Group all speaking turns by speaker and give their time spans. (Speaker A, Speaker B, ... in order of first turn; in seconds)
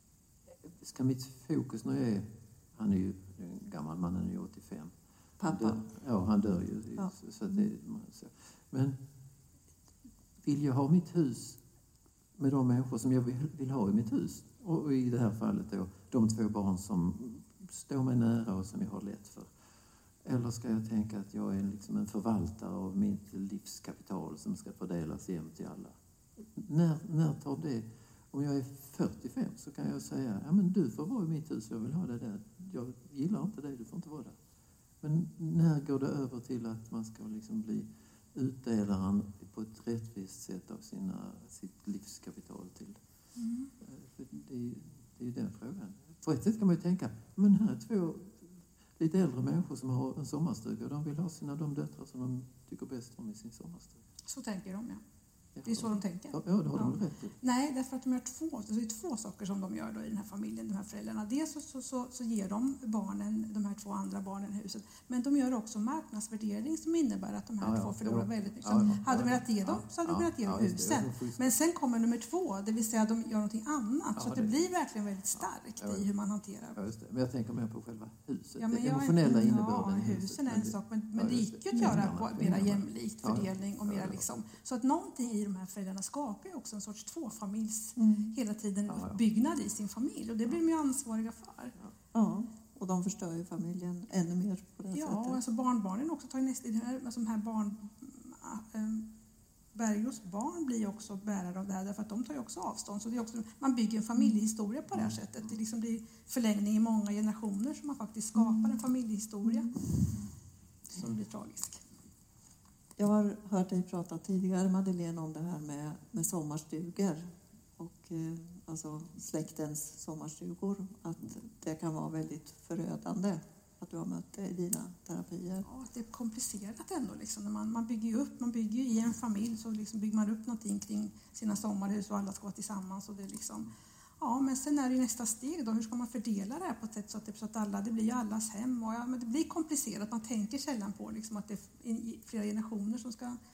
Speaker A: 0.7-4.9, 5.5-9.0, 10.4-11.6, 12.4-19.5, 20.2-34.4, 35.0-43.0, 43.8-54.0, 55.6-57.4, 67.6-71.5, 74.2-74.6, 75.4-76.0, 76.8-84.5, 88.9-89.2
Speaker B: 5.4-5.8, 7.0-7.7, 88.0-88.3, 92.1-95.4, 108.4-108.7, 113.0-125.7
Speaker C: 43.4-43.7, 54.3-55.0, 55.6-76.8, 78.6-91.7, 94.9-99.1, 99.8-109.8, 110.9-111.8, 125.6-143.4